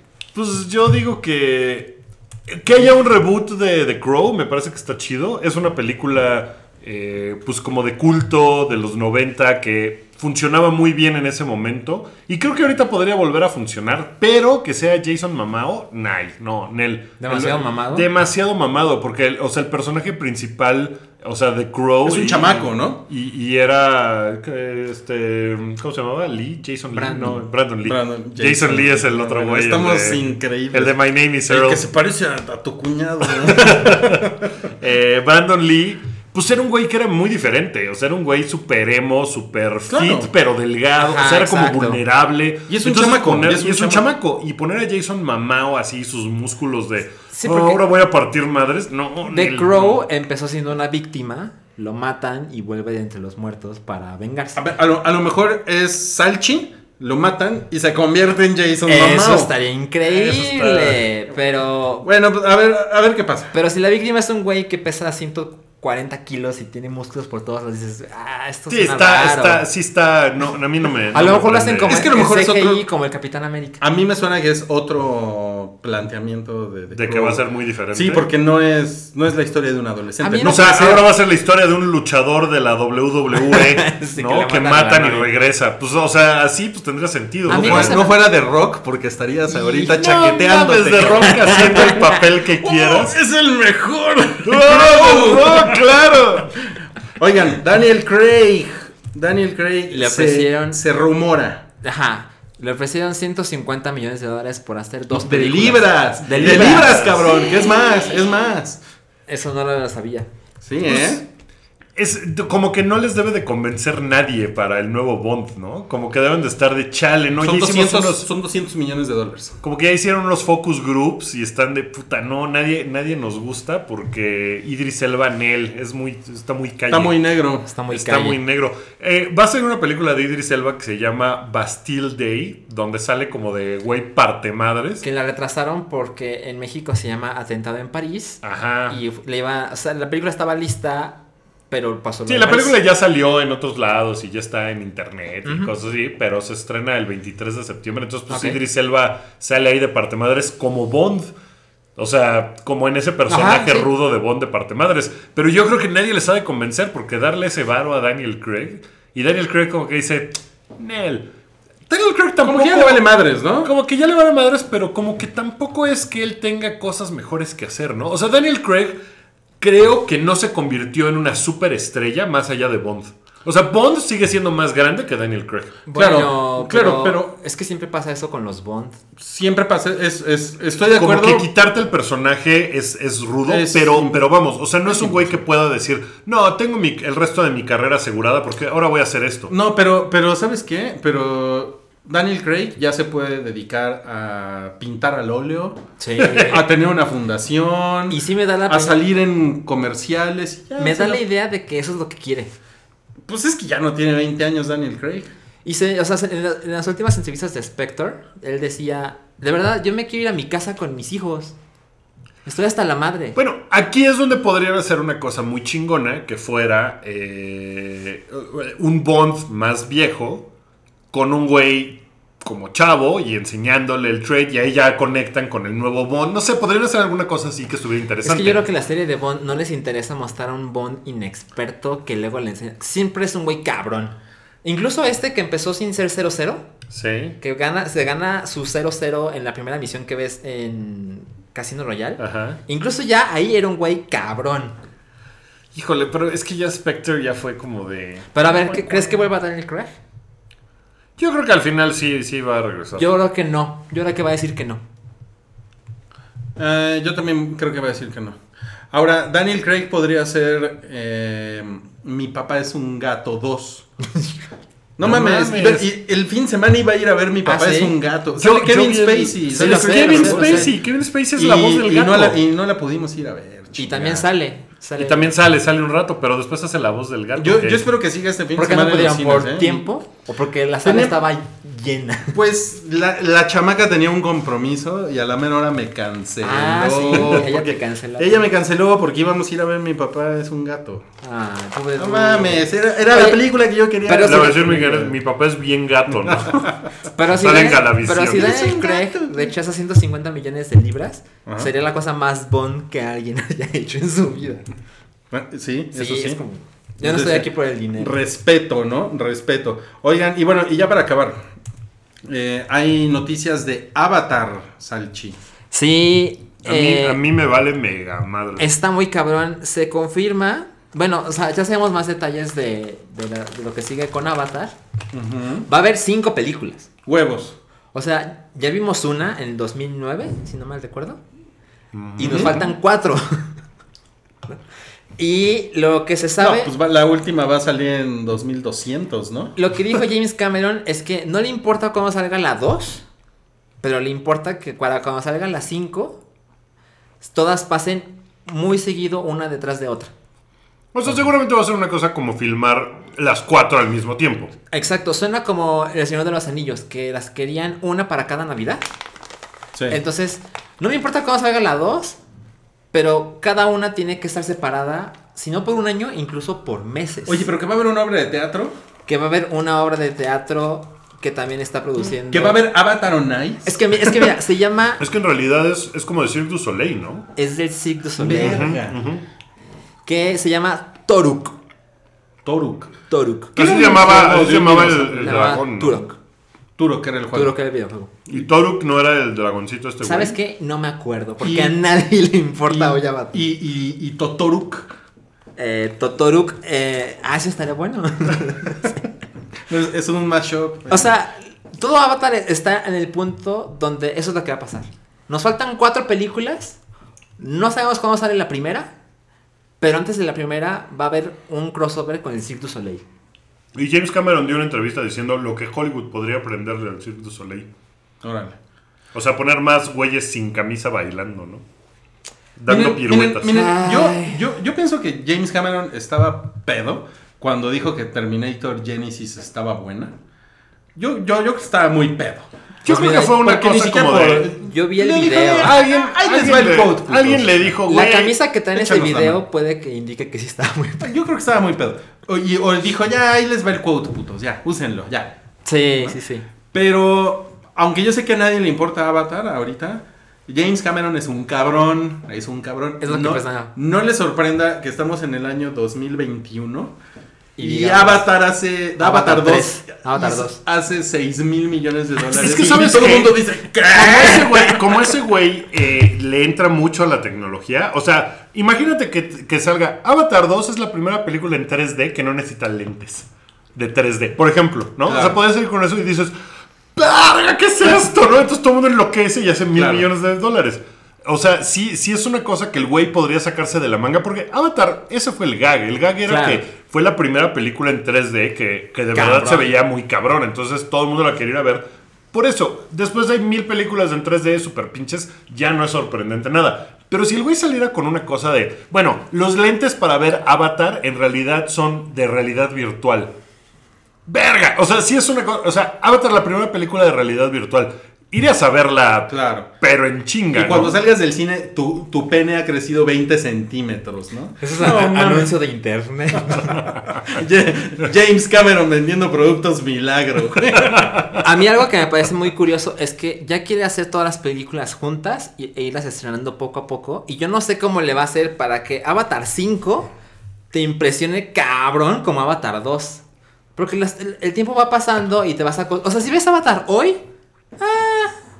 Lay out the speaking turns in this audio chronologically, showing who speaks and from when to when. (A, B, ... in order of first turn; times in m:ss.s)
0:00.3-0:31.8 A
0:17.2-0:18.1 B
0:22.0-0:23.0 C
0:26.9-0:27.4 B
0:27.8-0:34.4 C
0:33.2-0:50.0 A
0:39.9-0:40.3 C
0:41.0-0:42.0 B
0:42.7-0:44.0 C
0:47.3-0:47.8 B
0:49.2-0:54.6 B
0:54.5-0:59.5 C
0:58.8-1:02.1 B
1:00.0-1:01.1 A
1:02.0-1:03.5 C
1:03.5-1:09.6 B
1:08.7-1:12.0 A
1:11.1-1:13.8 B
1:11.9-1:12.8 C
1:13.8-1:17.4 C
1:16.9-1:18.3 A
1:17.9-1:21.0 C
1:20.2-1:21.0 B
1:20.4-1:28.0 A
1:23.5-1:25.3 B
1:27.5-1:28.1 B
1:27.5-1:41.6 C
1:29.5-1:30.0 B
1:29.9-1:33.2 A
1:31.0-1:32.2 B
1:34.4-1:36.6 A
1:39.9-1:40.8 B
1:41.8-1:47.3 B
1:45.1-1:48.8 C
1:46.4-1:47.3 A
1:49.3-1:50.3 B
1:50.6-1:51.2 C
1:50.8-1:51.2 A
1:52.0-1:58.3 A
1:57.4-1:59.6 C
1:59.6-2:07.2 A
2:06.9-2:07.7 C
2:07.7-2:08.4 B
2:07.9-2:15.0 A
2:15.0-2:21.2 B
2:18.4-2:19.0 A
2:21.7-2:22.7 B
2:22.2-2:31.3 A
2:25.4-2:25.7 B
2:28.3-2:28.6 B
2:32.0-2:41.3 A
2:33.3-2:33.9 B
2:41.9-2:43.0 A
2:42.4-2:43.7 C
2:43.6-2:49.0 A
2:49.6-2:55.8 A
2:55.9-2:59.0 B
2:55.9-2:57.3 C
2:59.2-3:01.5 C
3:00.9-3:09.5 A
3:03.5-3:04.2 C
3:04.9-3:05.4 C
3:09.5-3:15.8 C
3:16.0-3:16.6 B
3:16.2-3:16.6 A
3:16.5-3:21.2 C
3:18.1-3:19.0 B
3:20.8-3:22.5 B
3:23.3-3:25.3 C
3:25.6-3:31.6 B
3:32.4-3:33.4 B
3:33.3-3:40.5 A
3:41.1-3:48.6 A
3:48.2-3:56.6 B
3:56.9-3:57.4 A
3:57.4-4:04.8 B
4:02.2-4:02.6 A
4:05.7-4:09.1 A
4:08.3-4:09.9 B
4:11.2-4:13.1 A
4:12.9-4:14.8 B
4:16.6-4:18.4 C
4:18.9-4:23.9 C
4:25.0-4:30.8 C
4:25.0-4:25.9 A
4:27.4-4:28.0 B
4:28.4-4:32.4 A
4:29.5-4:30.7 B
4:31.3-4:34.2 C
4:33.8-4:35.3 B
4:35.0-4:37.9 A
4:37.4-4:39.9 C
4:38.6-4:42.4 B
4:40.8-4:41.2 C
4:42.3-4:51.0 C
4:46.4-4:48.4 B
4:47.1-4:47.4 A
4:51.2-4:53.4 B
4:52.0-4:55.1 C
4:54.0-4:54.9 B
4:54.2-4:56.7 A
4:56.3-4:56.9 C
4:57.0-5:04.7 B
4:57.3-4:58.7 A
4:58.1-4:59.5 C
5:01.4-5:01.7 C
5:05.3-5:06.4 C
5:05.9-5:08.1 B
5:07.0-5:11.4 C
5:12.3-5:15.4 C
5:15.7-5:17.2 B
5:16.6-5:18.7 A
5:18.6-5:24.7 B
5:25.1-5:25.7 C
5:25.7-5:26.9 B
5:27.0-5:27.6 C
5:27.9-5:31.2 B
5:31.9-5:32.6 A
5:32.2-5:33.4 B
5:32.2-5:32.6 C
5:35.2-5:36.7 B
5:36.4-5:39.6 C
5:39.6-5:43.0 B
5:43.8-5:46.2 B
5:47.2-5:50.1 B
5:50.9-5:54.5 A
5:54.7-5:58.8 B
5:59.7-6:00.0 C
5:59.9-6:02.2 B
6:02.9-6:07.4 B
6:07.2-6:08.8 C
6:09.1-6:12.6 B
6:12.1-6:14.3 C
6:13.6-6:15.0 B
6:15.0-6:17.3 A
6:17.4-6:18.8 B
6:18.2-6:19.0 C
6:18.3-6:19.2 A
6:20.0-6:21.6 B
6:22.4-6:22.9 C
6:23.1-6:26.2 B
6:23.6-6:25.6 C
6:23.6-6:26.0 A
6:26.8-6:27.5 C
6:27.3-6:28.1 B
6:28.3-6:30.4 A
6:30.0-6:33.4 B
6:31.4-6:31.8 C
6:32.7-6:34.9 C
6:35.6-6:39.0 B
6:39.7-6:41.1 C
6:40.9-6:46.8 B
6:47.4-6:48.9 B
6:49.8-6:53.0 B
6:53.7-6:57.7 A
6:58.2-6:58.6 C
6:59.1-7:01.6 A
7:02.6-7:03.6 A
7:02.7-7:10.1 C
7:03.5-7:04.4 B
7:10.9-7:17.7 C
7:12.8-7:14.5 A
7:12.8-7:13.4 B
7:14.6-7:15.8 B
7:15.1-7:18.4 A
7:17.9-7:21.1 B
7:18.7-7:19.4 C
7:21.0-7:25.3 C
7:25.6-7:26.4 B
7:26.7-7:36.9 C
7:33.0-7:33.7 B
7:37.6-7:38.2 B
7:37.6-7:44.8 C
7:39.0-7:40.6 B
7:42.3-7:56.3 A
7:44.0-7:44.7 B
7:55.0-7:55.4 C
7:56.9-8:23.3 A
7:59.7-8:00.1 C
8:06.2-8:06.6 B
8:09.1-8:09.7 B
8:24.2-8:31.0 A
8:29.3-8:29.7 C
8:30.5-8:35.5 C
8:34.6-8:36.8 B
8:36.5-8:41.4 C
8:40.8-8:41.3 A
8:41.4-8:50.1 B
8:50.7-8:53.2 B
8:53.8-8:57.2 B
8:57.8-8:58.4 B